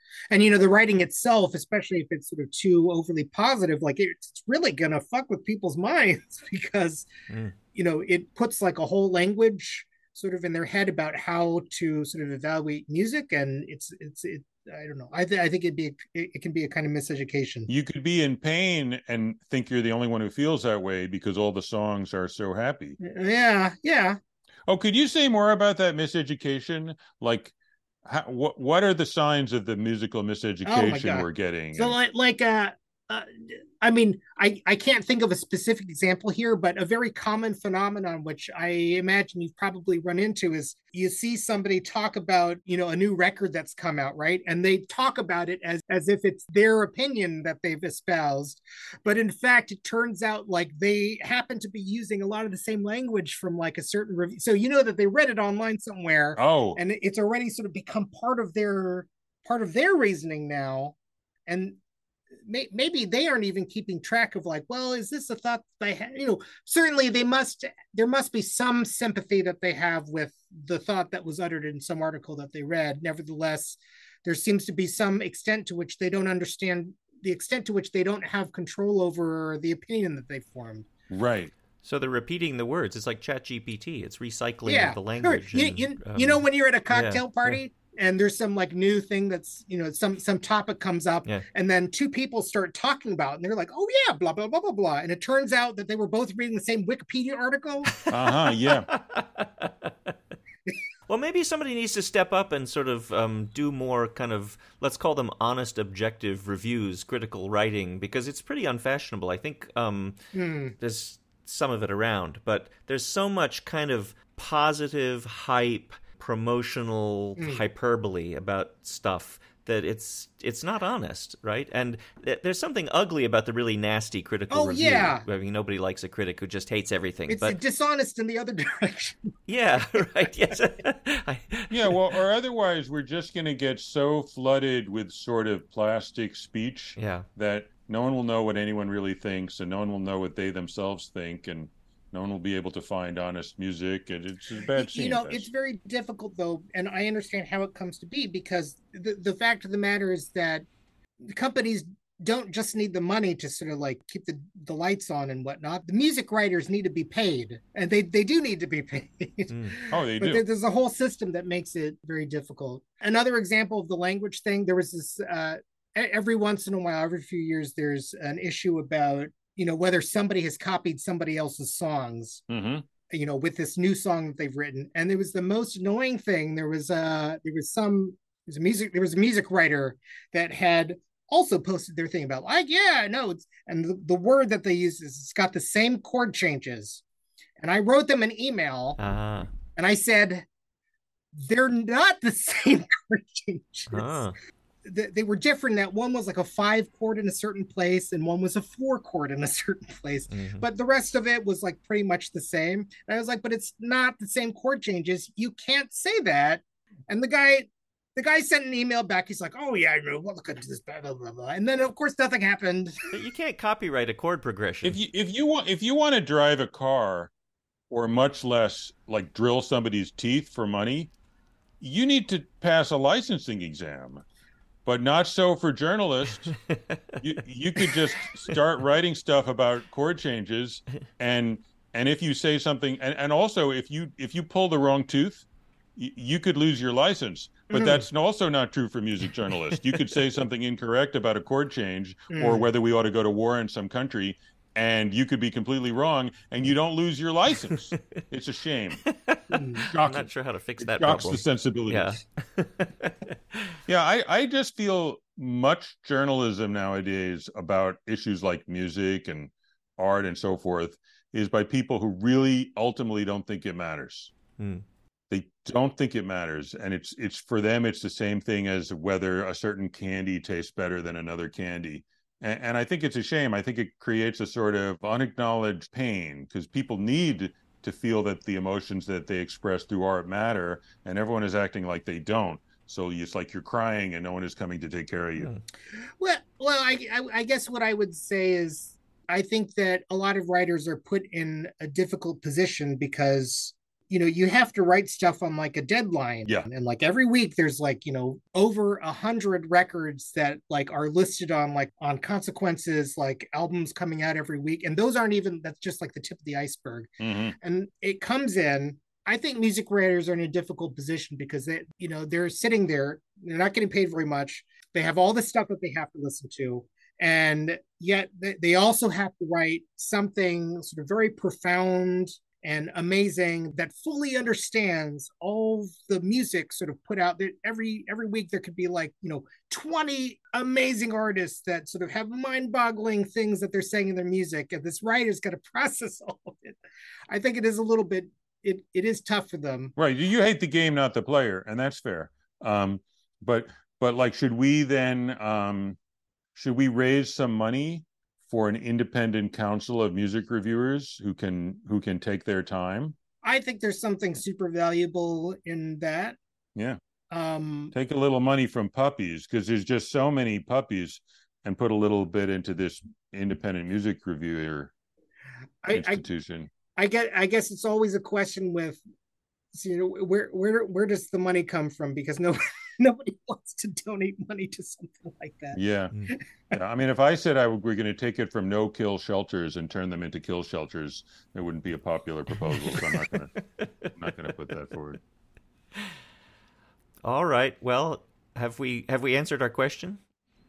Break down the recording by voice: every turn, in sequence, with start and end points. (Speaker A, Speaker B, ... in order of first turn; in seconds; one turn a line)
Speaker A: 0.3-7.1
Speaker B: 7.3-7.5
Speaker A: 7.7-17.7
Speaker C: 17.7-23.0
Speaker A: 23.0-24.2
Speaker C: 24.7-27.5
Speaker C: 28.1-32.0
Speaker A: 30.6-60.9
Speaker C: 56.4-56.8
Speaker A: 61.5-61.8
Speaker A: 62.4-80.9
Speaker C: 81.1-81.5
Speaker B: 81.8-87.6
Speaker A: 84.7-98.0
Speaker B: 97.9-100.1
Speaker C: 98.1-98.9
Speaker B: 101.1-110.2
Speaker A: 110.3-110.8
Speaker B: 110.8-127.5
Speaker A: 124.5-125.2
Speaker A: 127.3-129.3
Speaker B: 129.5-132.0
Speaker C: 131.7-145.5
Speaker B: 137.0-137.3
Speaker A: 144.7-150.7
Speaker A: 151.2-172.4
Speaker B: 159.5-159.8
Speaker C: 159.9-160.4
Speaker C: 172.5-172.8
Speaker A: 173.1-187.0
Speaker A: 187.6-189.0
Speaker B: 189.0-189.5
Speaker A: 189.8-190.4
Speaker A: 191.3-194.2
Speaker B: 193.9-194.3
Speaker A: 194.8-213.1
Speaker B: 200.3-200.6
Speaker B: 213.1-215.0
Speaker C: 214.8-217.3
Speaker C: 217.9-221.1
Speaker C: 221.8-224.2
Speaker C: 224.8-226.5
Speaker B: 226.5-227.2
Speaker C: 227.2-249.0
Speaker A: 237.7-238.0
Speaker A: 242.3-242.7
Speaker B: 249.0-253.8
Speaker A: 249.5-249.9
Speaker C: 249.8-252.2
Speaker C: 253.9-264.3
Speaker B: 264.6-264.8
Speaker C: 265.3-285.5
Speaker B: 285.4-285.6
Speaker A: 285.9-336.8
Speaker C: 307.2-307.6
Speaker A: 337.3-339.9
Speaker C: 340.0-346.0
Speaker C: 346.5-353.2
Speaker A: 353.4-356.4
Speaker A: 357.3-357.9
Speaker C: 357.9-364.9
Speaker A: 365.8-366.2
Speaker C: 365.9-366.7
Speaker A: 366.9-369.0
Speaker A: 369.7-375.8
Speaker C: 375.7-376.1
Speaker C: 376.7-383.5
Speaker B: 382.5-384.1
Speaker C: 384.1-385.2
Speaker B: 387.2-390.2